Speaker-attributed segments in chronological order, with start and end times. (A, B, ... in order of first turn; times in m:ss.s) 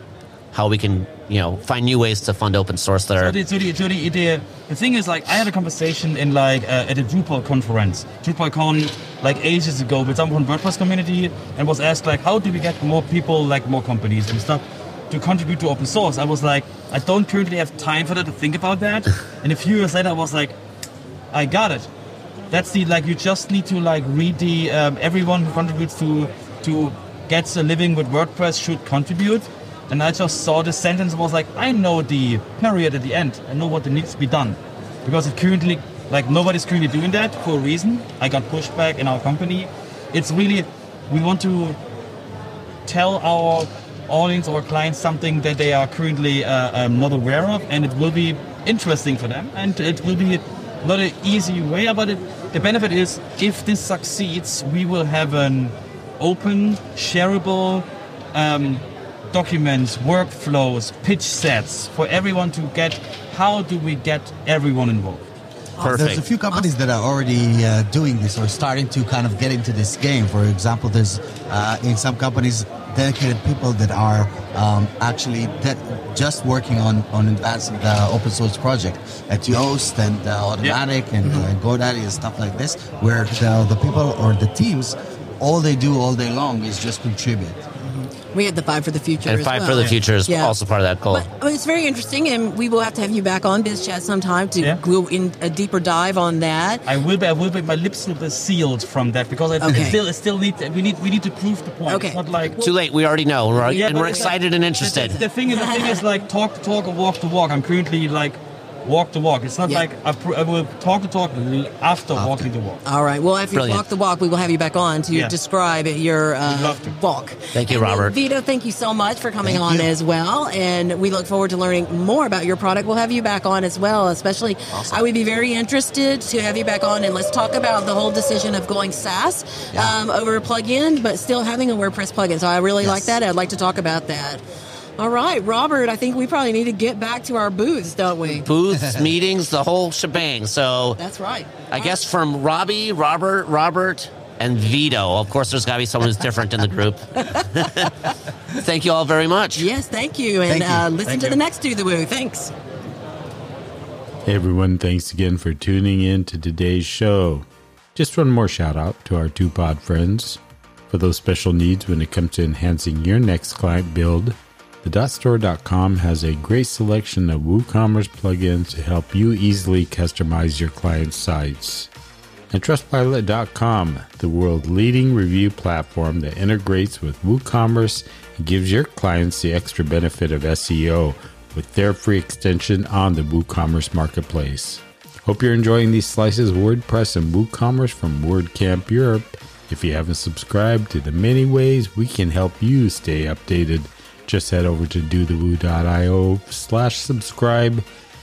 0:00.5-0:03.4 A
0:03.2-0:20.6 B
0:21.3-0:21.9 B
0:22.5-0:41.8 B
0:42.8-1:05.2 B
1:05.8-1:06.7 C
1:05.8-1:06.2 A
1:05.8-1:27.6 D
1:21.2-1:21.5 C
1:27.8-1:30.5 C
1:29.2-1:31.3 A
1:31.1-1:36.8 C
1:36.8-1:42.6 B
1:39.6-1:40.0 C
1:41.8-1:42.7 C
1:42.6-1:45.2 A
1:43.6-1:52.8 B
1:43.7-1:44.3 C
1:44.8-1:46.0 C
1:52.1-1:52.5 D
1:52.8-2:14.4 C
1:53.5-1:53.8 A
1:55.1-1:55.3 B
1:56.4-1:56.9 B
1:57.5-1:58.2 A
1:59.4-1:59.9 D
2:04.7-2:05.1 D
2:12.8-2:13.1 D
2:15.0-2:18.5 C
2:18.4-2:21.0 A
2:21.0-2:22.0 C
2:21.7-2:27.9 A
2:27.2-2:27.9 C
2:28.5-2:29.7 A
2:29.6-2:32.5 C
2:30.5-2:31.3 D
2:34.2-2:51.9 E
2:52.5-3:17.8 E